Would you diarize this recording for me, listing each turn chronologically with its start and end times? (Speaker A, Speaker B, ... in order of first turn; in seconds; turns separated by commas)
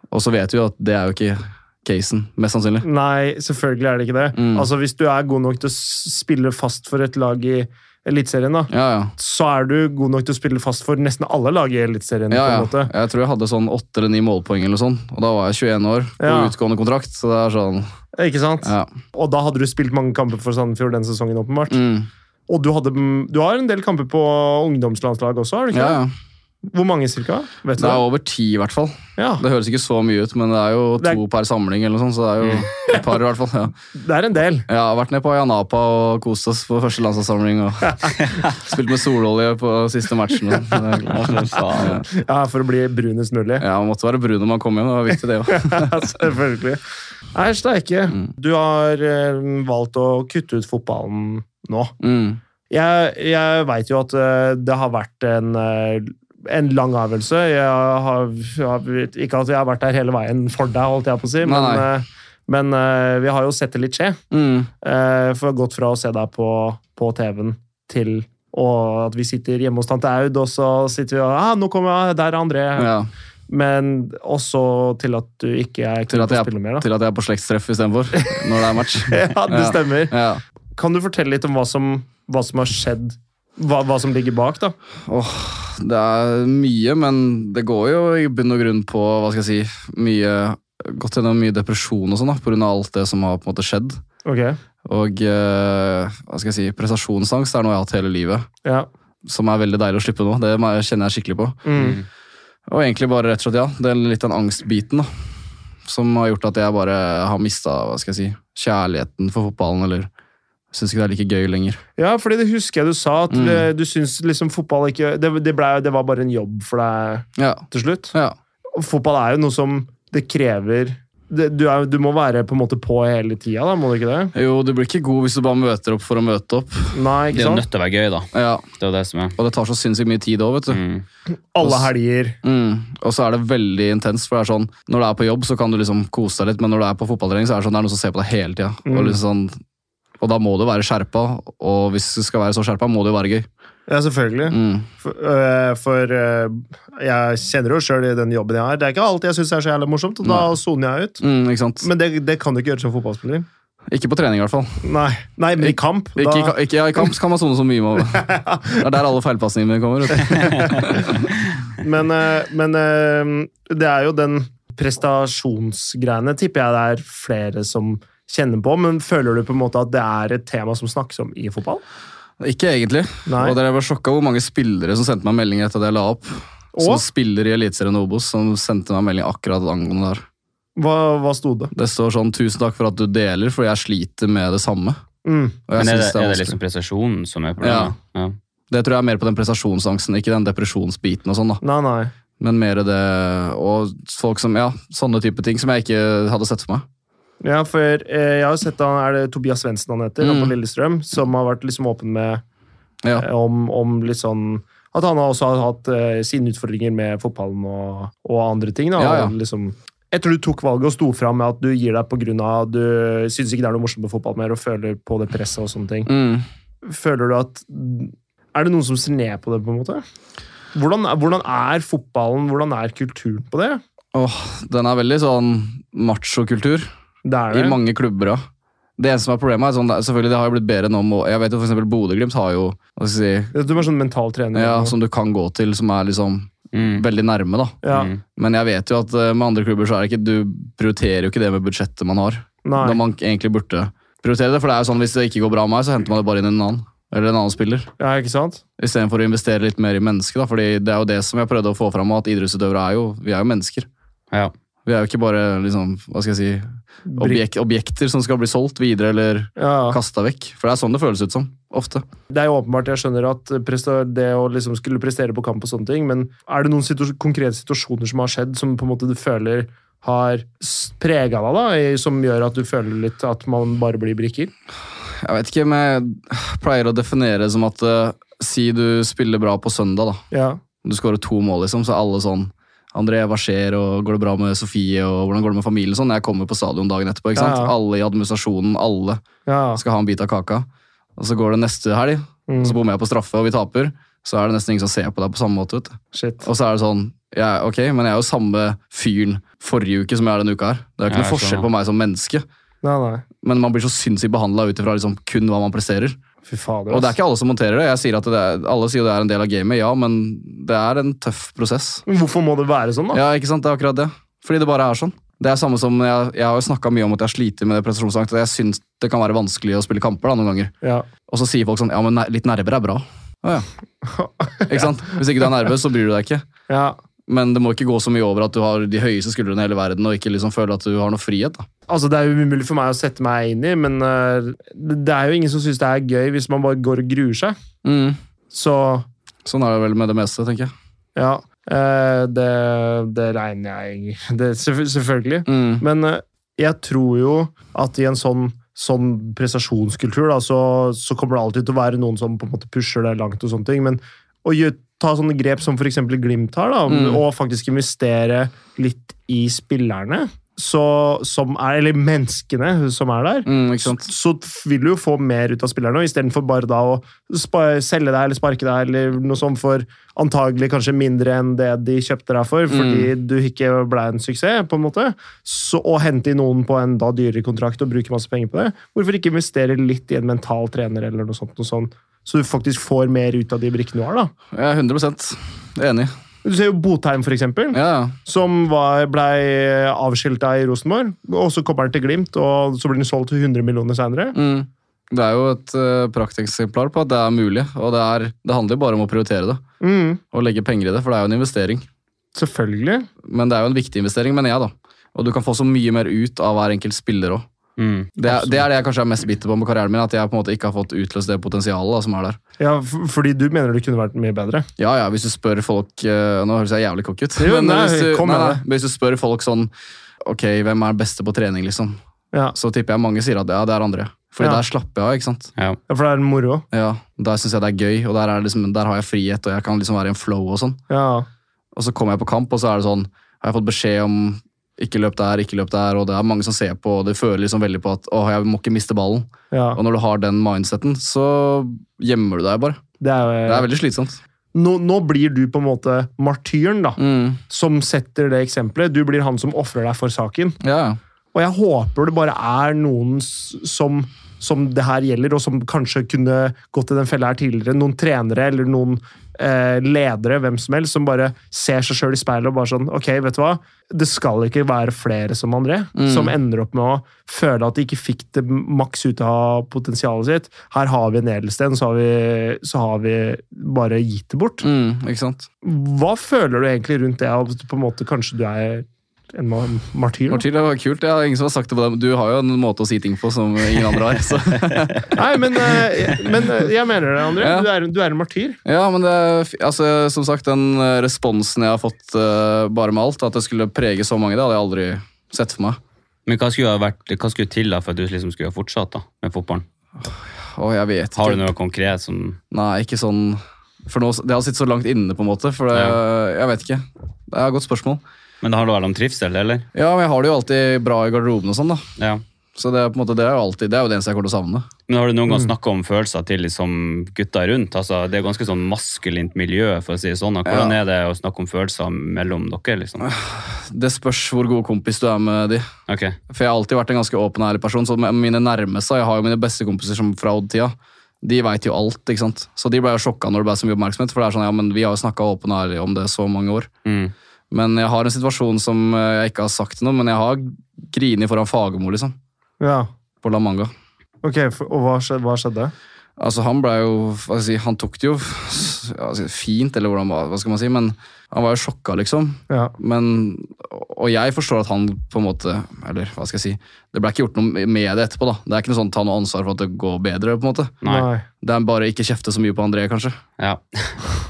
Speaker A: 0.1-2.9, Speaker B: 2.8-12.9, Speaker A: 4.3-4.7, Speaker A: 8.7-9.1, Speaker A: 12.3-17.9, Speaker B: 16.2-16.5, Speaker B: 18.1-21.8, Speaker A: 18.6-18.9, Speaker A: 21.7-22.1, Speaker B: 22.5-26.0, Speaker A: 25.7-26.1, Speaker B: 26.6-28.0, Speaker A: 27.8-33.7, Speaker B: 29.2-29.4, Speaker B: 33.9-34.7, Speaker A: 34.7-42.0, Speaker B: 37.9-38.1, Speaker C: 41.1-42.0, Speaker B: 42.0-43.6, Speaker A: 43.6-46.1, Speaker B: 45.5-46.8, Speaker B: 47.3-51.9, Speaker A: 52.0-52.4, Speaker B: 52.7-64.2, Speaker A: 61.4-61.9, Speaker A: 64.3-64.7, Speaker B: 64.8-72.9, Speaker A: 72.8-73.1, Speaker B: 73.5-76.8, Speaker A: 76.1-80.4, Speaker B: 78.1-80.2, Speaker B: 80.7-84.7, Speaker A: 85.0-94.0, Speaker B: 94.2-94.6, Speaker A: 94.8-98.5, Speaker A: 99.2-101.8, Speaker B: 101.6-102.0, Speaker C: 101.8-102.0, Speaker A: 102.7-105.1, Speaker A: 105.8-110.1, Speaker A: 110.7-111.8, Speaker B: 112.0-118.1, Speaker A: 113.3-113.7, Speaker A: 117.4-118.3, Speaker B: 118.7-124.3, Speaker A: 124.3-127.0, Speaker B: 126.9-127.6, Speaker C: 127.3-129.3, Speaker A: 128.3-128.6, Speaker A: 129.4-130.8, Speaker C: 130.7-131.0, Speaker B: 131.5-132.4, Speaker A: 131.6-131.9, Speaker A: 132.4-139.6, Speaker B: 138.8-139.2, Speaker A: 140.2-143.5, Speaker B: 143.9-151.2, Speaker A: 144.5-144.9, Speaker A: 150.2-150.5, Speaker A: 151.2-151.9, Speaker B: 151.8-153.4, Speaker A: 153.9-154.8, Speaker B: 154.8-157.1, Speaker A: 155.6-161.2, Speaker B: 158.1-158.8, Speaker B: 160.2-161.1, Speaker B: 161.8-171.8, Speaker A: 172.4-180.2, Speaker B: 173.2-173.6, Speaker B: 176.7-177.0, Speaker B: 180.8-181.7, Speaker A: 181.7-185.0, Speaker B: 185.2-185.6, Speaker A: 185.7-186.6, Speaker C: 185.8-188.3, Speaker A: 187.6-187.9, Speaker A: 188.7-191.6, Speaker B: 191.6-192.1, Speaker A: 192.4-196.8, Speaker B: 197.4-202.4, Speaker A: 200.2-200.5, Speaker B: 203.1-216.1, Speaker A: 209.0-209.3, Speaker A: 216.1-216.4, Speaker B: 216.8-220.0, Speaker B: 220.7-223.8, Speaker A: 224.1-226.9, Speaker B: 227.2-227.8, Speaker A: 227.5-228.4, Speaker A: 229.0-233.5, Speaker B: 233.5-234.9, Speaker A: 234.5-237.8, Speaker C: 236.7-237.0, Speaker B: 237.8-238.1, Speaker C: 237.9-238.2, Speaker A: 238.3-247.9, Speaker B: 242.6-243.0, Speaker B: 248.0-248.6, Speaker A: 248.8-253.9, Speaker A: 254.8-262.0, Speaker B: 257.1-257.4, Speaker B: 259.6-260.0, Speaker B: 262.3-274.5, Speaker A: 275.1-280.2, Speaker B: 280.3-280.6, Speaker A: 280.8-289.2, Speaker B: 287.3-287.7, Speaker B: 289.4-289.8, Speaker A: 289.8-302.4, Speaker B: 292.5-292.8, Speaker B: 296.1-296.4, Speaker C: 301.1-301.7, Speaker B: 302.8-303.2, Speaker A: 303.4-306.2, Speaker B: 306.4-307.1, Speaker A: 306.9-312.0, Speaker B: 312.1-313.2, Speaker A: 313.1-320.7, Speaker B: 320.8-321.1, Speaker A: 321.3-323.7, Speaker B: 324.0-325.2, Speaker A: 324.6-326.4, Speaker B: 326.7-327.0, Speaker A: 327.3-331.6, Speaker B: 331.9-337.6, Speaker A: 337.8-338.2, Speaker B: 338.5-339.1, Speaker A: 339.4-340.7, Speaker B: 341.1-384.3, Speaker A: 345.5-345.8, Speaker A: 356.9-357.2, Speaker A: 363.4-364.1, Speaker A: 372.7-373.1, Speaker A: 384.5-386.1, Speaker B: 386.4-394.4, Speaker A: 387.7-388.1, Speaker A: 394.3-399.6, Speaker B: 399.8-400.2, Speaker A: 400.3-401.8, Speaker B: 402.4-403.1, Speaker A: 403.2-407.4, Speaker C: 407.8-408.1, Speaker A: 408.2-412.4, Speaker B: 408.2-408.6, Speaker B: 412.6-414.7, Speaker A: 414.8-419.7, Speaker B: 417.4-418.6, Speaker A: 420.2-422.0, Speaker A: 422.5-425.5, Speaker B: 425.9-426.6, Speaker A: 426.7-430.8, Speaker B: 430.9-431.3, Speaker A: 431.7-442.8, Speaker B: 439.5-439.8, Speaker B: 443.0-443.7, Speaker A: 443.4-444.2, Speaker B: 444.5-450.6, Speaker A: 447.0-447.4, Speaker A: 450.6-451.0, Speaker B: 451.3-474.6, Speaker A: 465.9-466.3, Speaker A: 474.6-475.5, Speaker B: 475.6-480.4, Speaker A: 480.3-486.2, Speaker B: 485.1-488.6, Speaker A: 487.4-487.7, Speaker A: 488.6-495.8, Speaker C: 496.2-499.6, Speaker A: 500.0-501.5, Speaker C: 501.1-502.4, Speaker A: 502.5-508.0, Speaker C: 505.7-506.0, Speaker C: 508.4-509.6, Speaker A: 509.7-511.8, Speaker C: 512.0-512.2, Speaker A: 512.5-514.7, Speaker C: 514.9-523.1, Speaker A: 520.5-520.7, Speaker A: 523.0-525.6, Speaker C: 525.9-526.2, Speaker A: 526.3-536.7, Speaker C: 536.8-537.1, Speaker A: 537.5-542.1, Speaker B: 542.6-542.9, Speaker A: 543.2-543.7, Speaker B: 544.2-545.7, Speaker A: 546.2-560.8, Speaker C: 560.8-561.1, Speaker B: 560.8-561.2, Speaker A: 561.4-563.2, Speaker C: 563.4-564.1